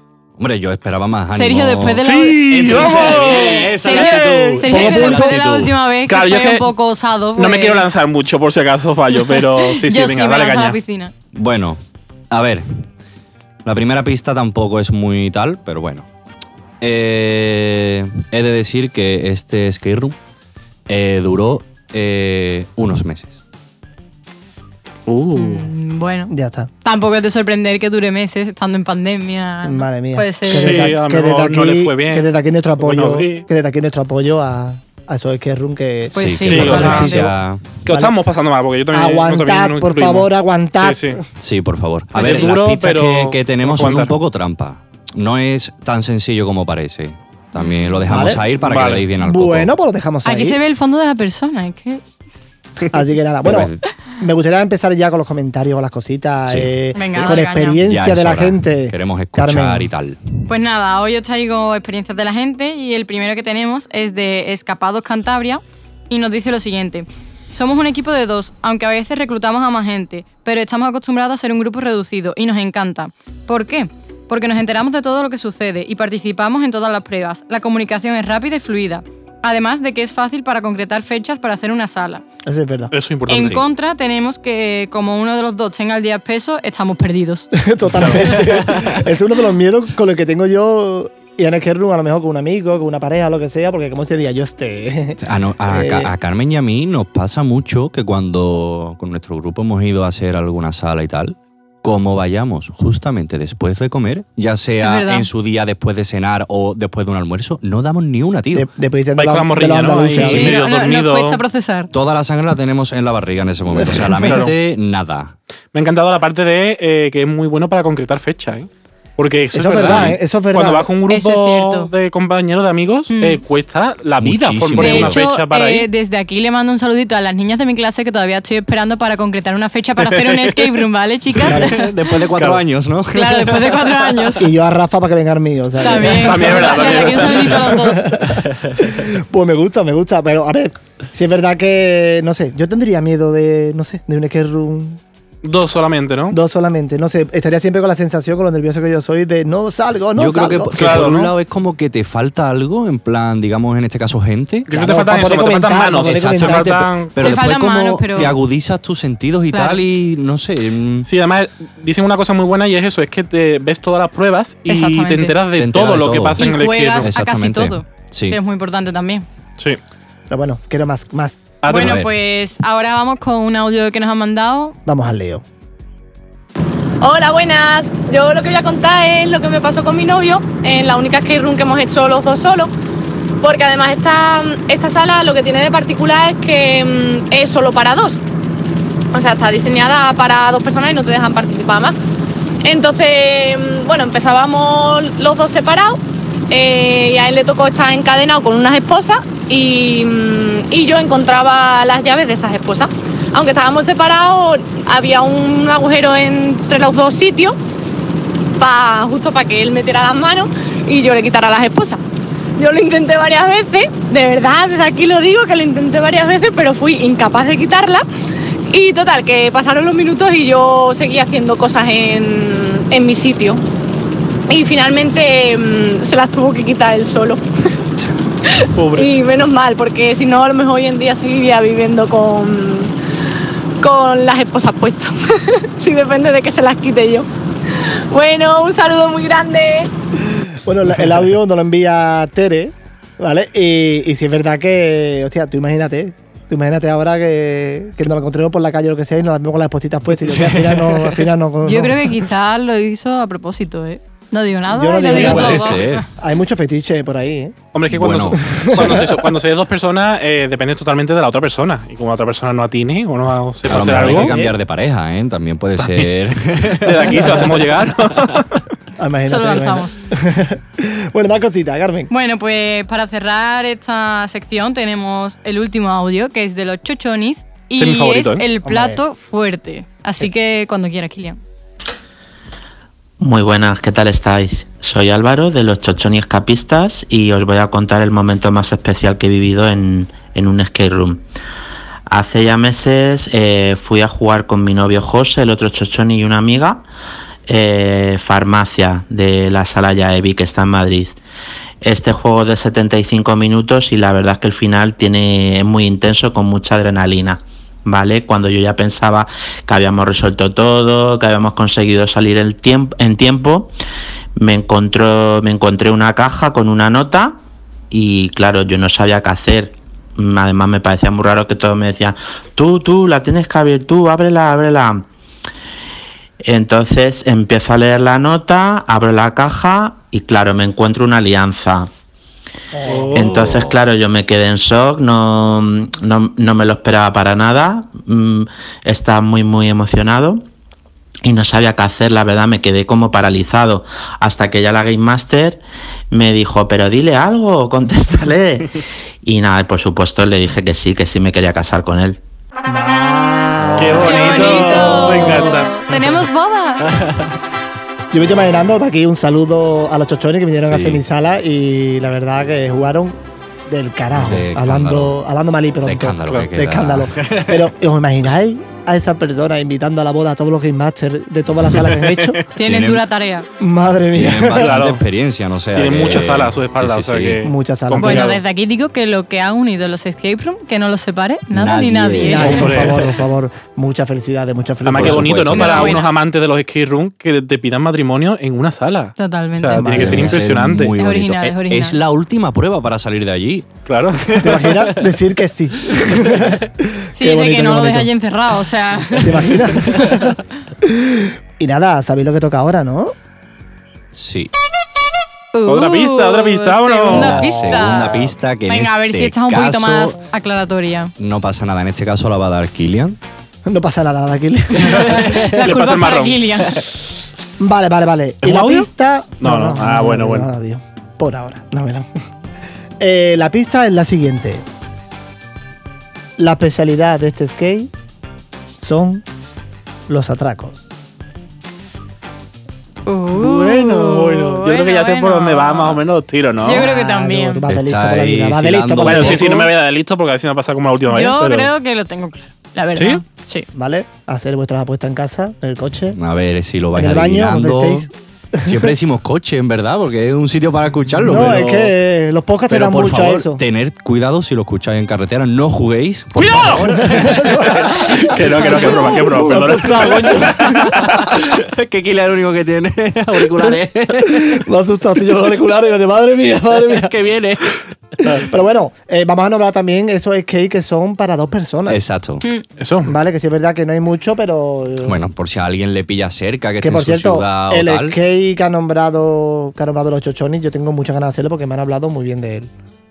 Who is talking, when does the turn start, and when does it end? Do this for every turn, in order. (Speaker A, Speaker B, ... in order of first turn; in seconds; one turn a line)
Speaker A: 0.4-5.8
Speaker B: 1.3-7.9
Speaker C: 2.0-5.3
Speaker D: 4.7-5.2
Speaker C: 6.1-6.7
Speaker C: 7.3-10.8
Speaker B: 9.3-11.1
Speaker A: 11.3-12.7
Speaker A: 13.6-16.1
Speaker A: 16.8-20.1
Speaker A: 20.9-23.4
Speaker C: 25.1-25.7
Speaker B: 25.3-26.3
Speaker D: 26.3-26.7
Speaker B: 26.8-30.9
Speaker D: 29.6-37.3
Speaker C: 30.5-33.5
Speaker B: 36.1-37.3
Speaker A: 36.1-37.7
Speaker C: 36.5-37.2
Speaker C: 37.8-41.2
Speaker D: 37.9-38.1
Speaker D: 38.9-41.2
Speaker A: 41.4-49.7
Speaker C: 42.1-44.1
Speaker B: 42.2-42.4
Speaker D: 48.1-48.5
Speaker C: 48.6-49.1
Speaker D: 49.1-50.6
Speaker B: 50.2-52.0
Speaker D: 52.9-59.9
Speaker A: 53.4-53.8
Speaker A: 56.5-56.7
Speaker B: 56.9-57.8
Speaker A: 57.8-60.2
Speaker B: 60.5-82.2
Speaker D: 82.4-82.9
Speaker C: 82.9-83.6
Speaker B: 83.3-87.5
Speaker A: 83.3-83.6
Speaker D: 87.5-96.1
Speaker C: 88.0-88.5
Speaker A: 95.2-108.7
Speaker B: 104.8-105.3
Speaker D: 108.5-110.5
Speaker C: 109.2-111.4
Speaker A: 110.2-110.5
Speaker B: 110.2-111.9
Speaker A: 111.9-115.3
Speaker D: 113.7-114.4
Speaker C: 114.2-114.5
Speaker C: 115.7-125.9
Speaker D: 119.5-120.9
Speaker A: 119.7-120.2
Speaker B: 121.1-121.9
Speaker B: 123.1-123.4
Speaker A: 124.2-125.2
Speaker B: 124.8-131.9
Speaker A: 131.4-134.2
Speaker D: 131.4-131.7
Speaker C: 132.3-132.6
Speaker B: 133.1-134.5
Speaker D: 134.4-145.0
Speaker B: 135.8-138.3
Speaker C: 136.0-137.6
Speaker C: 145.4-146.4
Speaker D: 146.3-151.3
Speaker A: 150.2-154.7
Speaker C: 150.8-151.3
Speaker C: 154.7-157.1
Speaker D: 154.7-156.9
Speaker A: 156.0-161.1
Speaker B: 157.2-158.4
Speaker B: 159.5-159.8
Speaker C: 161.0-167.1
Speaker B: 164.7-165.4
Speaker A: 165.6-168.4
Speaker B: 166.4-169.2
Speaker D: 170.3-171.4
Speaker C: 171.6-172.0
Speaker B: 171.7-174.8
Speaker A: 171.7-172.1
Speaker D: 174.8-175.4
Speaker E: 177.0-182.7
Speaker E: 183.4-188.2
Speaker E: 189.1-191.9
Speaker E: 192.6-207.6
Speaker E: 208.6-212.0
Speaker E: 212.6-218.0
Speaker E: 218.7-223.6
Speaker E: 224.5-227.4
Speaker E: 228.4-232.9
Speaker C: 228.7-229.1
Speaker E: 233.8-239.9
Speaker D: 240.3-252.2
Speaker A: 250.2-251.2
Speaker B: 251.6-256.0
Speaker D: 254.7-257.6
Speaker A: 255.1-256.0
Speaker C: 257.7-264.3
Speaker A: 257.9-259.1
Speaker D: 258.4-259.2
Speaker D: 263.7-264.5
Speaker A: 263.7-267.5
Speaker C: 265.8-266.1
Speaker C: 266.8-268.6
Speaker D: 269.0-272.1
Speaker B: 269.3-270.0
Speaker B: 272.1-281.4
Speaker C: 277.8-278.4
Speaker D: 278.6-279.0
Speaker F: 283.2-291.2
Speaker F: 292.1-296.8
Speaker F: 297.5-301.1
Speaker F: 301.8-313.7
Speaker F: 314.4-317.4
Speaker F: 317.9-325.1
Speaker F: 326.4-331.9
Speaker D: 332.7-333.1
Speaker C: 332.9-333.4
Speaker F: 333.1-340.4
Speaker A: 333.1-333.8
Speaker F: 341.2-352.2
Speaker D: 352.7-355.6
Speaker A: 353.6-354.1
Speaker C: 353.8-355.9
Speaker B: 354.0-356.9
Speaker D: 358.1-372.4
Speaker A: 360.6-361.0
Speaker A: 364.1-365.2
Speaker A: 365.8-367.7
Speaker C: 372.1-372.3
Speaker B: 372.5-373.5
Speaker A: 372.6-373.0
Speaker D: 373.6-374.8
Speaker A: 374.1-377.4
Speaker C: 374.5-375.0
Speaker C: 375.7-378.4
Speaker D: 377.4-378.3
Speaker B: 378.0-382.7
Speaker A: 381.5-382.9
Speaker D: 382.2-385.8
Speaker C: 382.4-383.1
Speaker C: 384.8-390.9
Speaker A: 384.9-386.0
Speaker B: 385.5-386.1
Speaker B: 389.2-389.9
Speaker D: 389.7-390.4
Speaker A: 389.8-393.7
Speaker B: 391.0-392.0
Speaker C: 393.9-394.9
Speaker D: 394.4-398.1
Speaker B: 397.1-400.3
Speaker D: 399.1-403.1
Speaker A: 404.1-404.5
Speaker B: 405.5-411.1
Speaker C: 405.6-407.6
Speaker A: 407.1-410.2
Speaker A: 411.2-413.2
Speaker D: 413.6-415.3
Speaker B: 414.9-416.8
Speaker C: 415.0-416.6
Speaker D: 417.6-422.1
Speaker C: 418.4-418.9
Speaker C: 419.4-420.5
Speaker D: 423.0-424.6
Speaker D: 426.4-427.9
Speaker D: 428.8-429.2
Speaker D: 430.1-430.8
Speaker B: 433.1-436.0
Speaker C: 433.3-436.9
Speaker B: 436.6-437.6
Speaker D: 436.6-439.7
Speaker A: 437.7-439.6
Speaker C: 439.0-441.7
Speaker B: 441.1-443.7
Speaker C: 442.9-443.2
Speaker D: 443.7-446.2
Speaker A: 446.1-448.1
Speaker D: 446.9-448.9
Speaker A: 448.6-451.9
Speaker D: 451.2-453.6
Speaker A: 452.7-458.0
Speaker C: 456.4-461.1
Speaker D: 457.0-461.1
Speaker A: 460.2-464.6
Speaker D: 463.6-467.1
Speaker A: 466.7-468.4
Speaker D: 468.3-472.0
Speaker A: 471.9-472.4
Speaker C: 472.8-473.1
Speaker D: 473.0-475.2
Speaker A: 475.0-478.1
Speaker D: 476.8-482.7